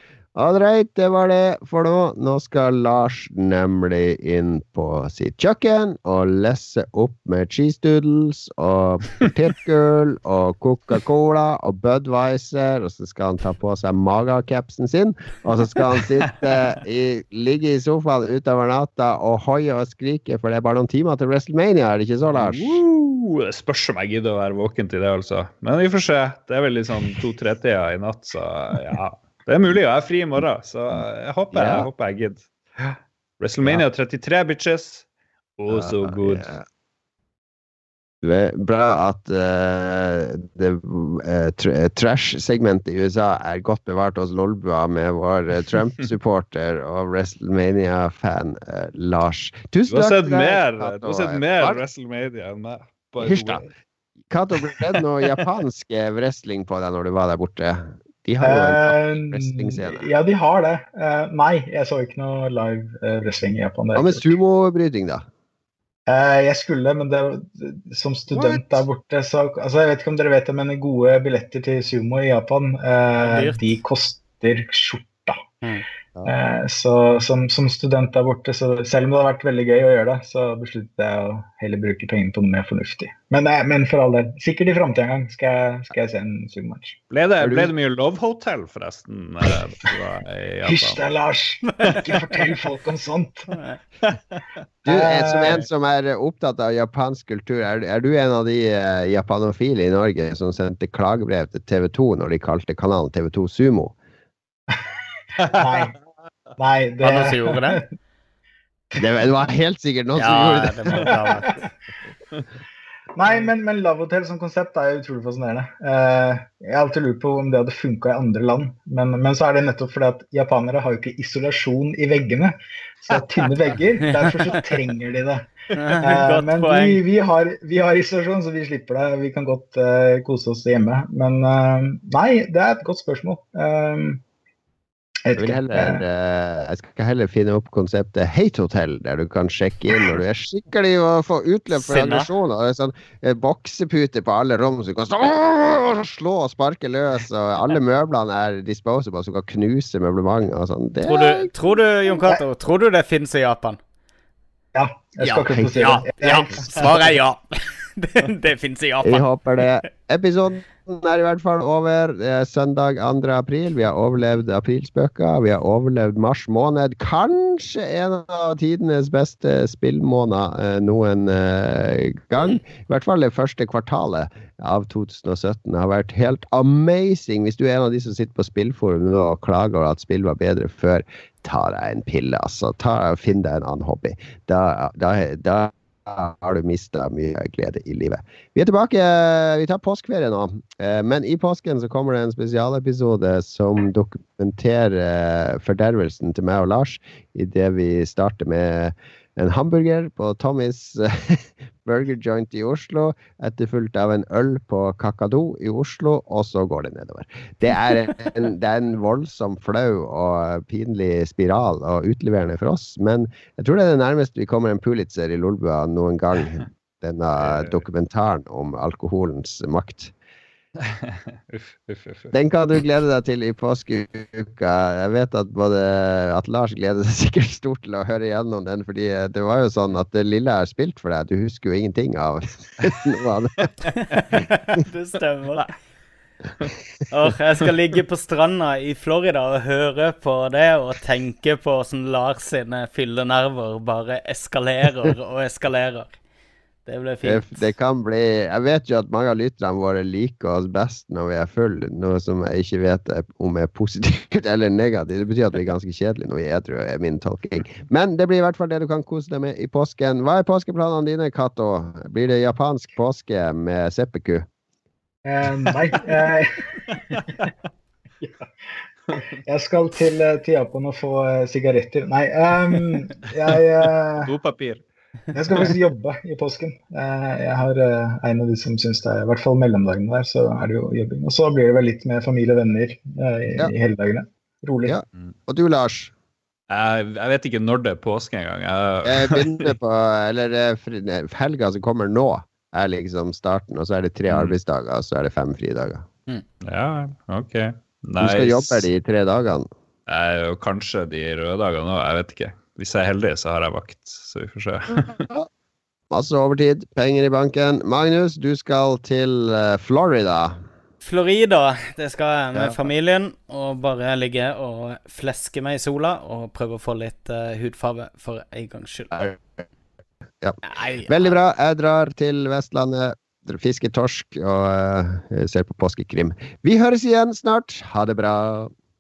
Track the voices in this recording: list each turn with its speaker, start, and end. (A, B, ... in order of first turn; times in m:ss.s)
0:00.4-0:22.8 A
0:22.3-0:32.5 B
0:31.5-0:31.9 A
0:33.4-0:35.0 B
0:35.6-0:36.5 B
0:35.7-0:36.6 A
0:38.2-0:51.8 A
0:49.9-0:53.6 B
0:53.2-0:53.7 A
0:54.3-1:00.1 A
0:58.4-1:04.3 C
1:03.9-1:05.3 A
1:06.1-1:15.4 C
1:13.2-1:13.6 D
1:16.3-1:27.0 C
1:27.1-1:31.0 B
1:27.4-1:27.7 A
1:30.6-1:33.5 C
1:33.5-1:33.8 D
1:34.8-1:35.6 C
1:34.8-1:43.9 A
1:44.7-1:45.9 C
1:45.4-1:45.9 B
1:46.6-1:47.8 C
1:47.0-1:47.8 D
1:49.0-1:51.2 A
1:50.2-1:51.6 D
1:53.2-2:14.2 C
2:04.0-2:04.3 D
2:05.8-2:07.0 D
2:15.2-2:16.0 C
2:15.4-2:31.5 A
2:21.7-2:22.3 D
2:31.0-2:33.8 D
2:34.7-2:36.7 C
2:35.2-2:36.7 A
2:35.8-2:39.3 D
2:39.0-3:40.1 A
3:37.4-3:37.8 B
3:40.8-3:42.3 B
3:42.3-3:53.7 A
3:54.1-3:55.7 D
3:57.1-4:06.2 D
4:06.9-4:07.7 D
4:07.2-4:24.5 A
4:25.2-4:26.7 C
4:28.2-4:28.5 C
4:29.5-4:34.3 C
4:34.2-4:34.8 B
4:35.3-4:44.9 C
4:44.8-4:46.1 A
4:46.7-4:49.7 B
4:49.0-4:56.1 A
4:54.3-4:54.6 B
4:56.6-4:58.9 B
4:58.2-4:59.7 A
5:00.1-5:05.3 B
5:05.2-5:05.5 A
5:06.1-5:10.6 A
5:11.0-5:19.1 D
5:12.5-5:12.9 A
5:19.1-5:19.6 A
5:20.4-5:28.7 A
5:20.6-5:21.4 D